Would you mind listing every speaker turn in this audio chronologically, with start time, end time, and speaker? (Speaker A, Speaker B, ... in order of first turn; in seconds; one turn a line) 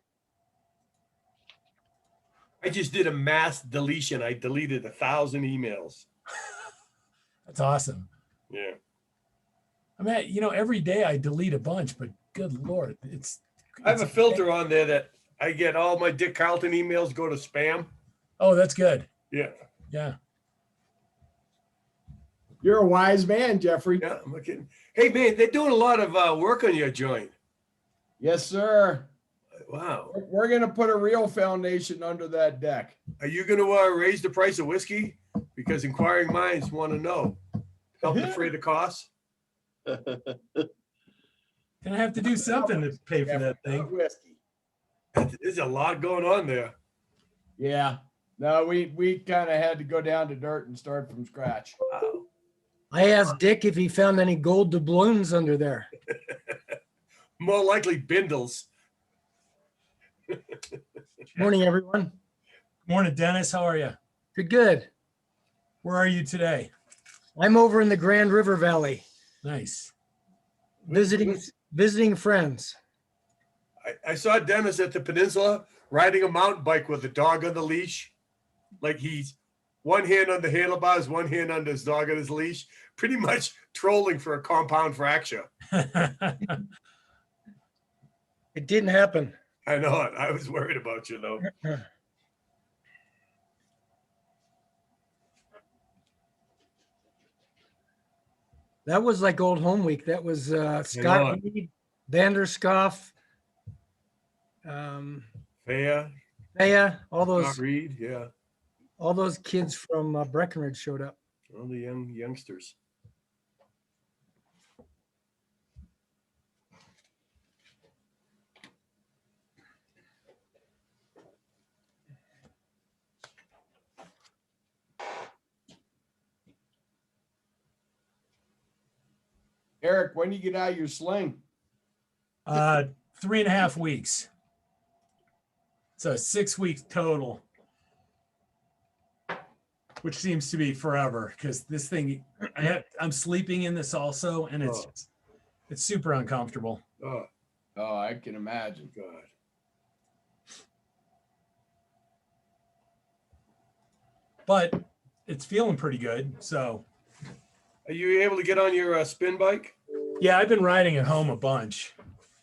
Speaker A: 2.6-6.0
Speaker B: 7.5-8.1
Speaker A: 8.5-8.8
Speaker B: 10.0-14.4
Speaker A: 13.8-17.9
Speaker B: 18.4-19.1
Speaker B: 19.9-20.1
Speaker C: 22.6-24.0
Speaker A: 24.0-27.3
Speaker C: 28.2-29.1
Speaker A: 29.7-30.1
Speaker C: 30.1-33.0
Speaker A: 33.2-37.4
Speaker A: 38.0-39.1
Speaker B: 41.8-43.9
Speaker C: 42.5-44.4
Speaker A: 45.1-46.7
Speaker C: 47.6-51.8
Speaker A: 51.9-52.2
Speaker D: 52.9-55.9
Speaker A: 57.4-58.7
Speaker D: 61.4-62.1
Speaker B: 62.9-64.0
Speaker D: 64.3-64.9
Speaker B: 65.8-66.7
Speaker D: 67.3-69.0
Speaker B: 69.4-69.9
Speaker D: 70.8-72.8
Speaker A: 70.9-71.4
Speaker A: 73.8-78.1
Speaker A: 78.8-85.5
Speaker B: 85.7-86.6
Speaker D: 88.5-89.3
Speaker A: 89.7-91.5
Speaker D: 98.8-103.1
Speaker A: 100.9-101.4
Speaker D: 104.6-105.2
Speaker A: 105.6-106.1
Speaker D: 106.5-107.6
Speaker A: 107.3-108.3
Speaker D: 109.0-111.1
Speaker A: 111.5-112.8
Speaker C: 129.8-131.4
Speaker B: 132.4-134.3
Speaker B: 136.0-137.4
Speaker B: 140.0-145.1
Speaker A: 144.6-144.9
Speaker B: 145.7-146.8
Speaker A: 147.0-147.3
Speaker C: 147.8-148.9
Speaker A: 148.9-149.3
Speaker B: 154.4-156.8
Speaker A: 157.8-159.7
Speaker B: 160.2-161.9